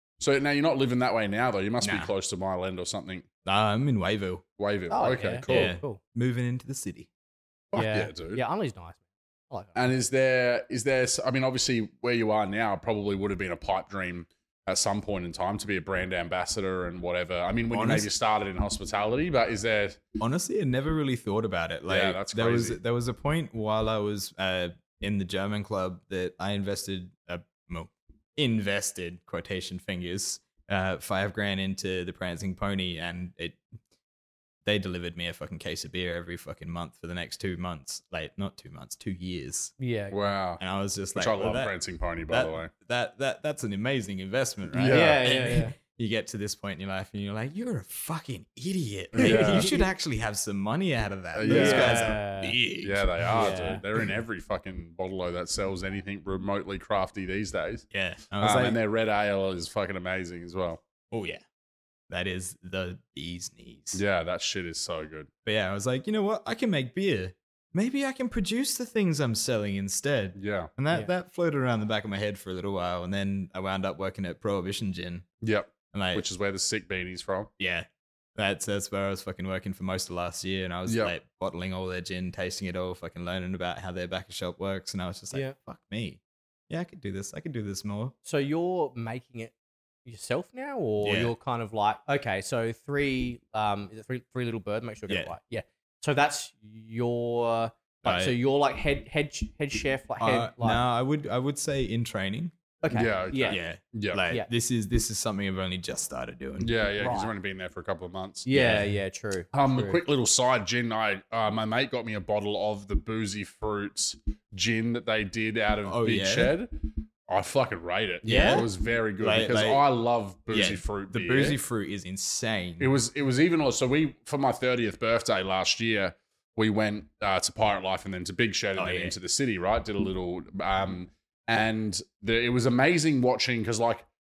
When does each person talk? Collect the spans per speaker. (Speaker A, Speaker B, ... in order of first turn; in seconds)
Speaker A: 0.2-3.3, 4.6-5.7, 7.7-8.4, 9.8-20.0, 21.9-22.8, 40.1-40.6, 41.1-42.7, 44.7-45.2, 49.1-49.7, 51.4-52.2, 52.8-57.9, 58.4-60.8, 63.9-65.3, 70.4-70.7, 75.4-77.5, 80.9-81.1, 102.9-104.2, 106.6-108.5, 109.5-116.7, 117.3-121.6, 122.8-134.1
Speaker B: 1.8-2.1, 3.5-4.4, 5.5-7.1, 17.7-18.1, 20.2-33.6, 34.6-39.7, 40.6-41.7, 42.3-54.1, 57.9-58.8, 61.1-61.4, 62.1-64.0, 65.5-75.2, 75.9-76.2, 77.6-88.1, 91.0-91.3, 95.1-95.3, 98.0-98.3, 100.2-102.5, 103.5-106.7, 108.5-108.9, 115.9-116.5, 118.2-118.7, 119.2-119.8, 120.5-122.9, 128.8-129.2
Speaker C: 4.9-6.0, 7.8-9.9, 39.8-40.2, 44.9-45.8, 49.2-49.8, 51.5-52.6, 53.4-53.8, 88.2-89.5, 90.0-100.8, 102.8-103.6, 107.0-107.3, 108.5-110.0, 118.2-118.7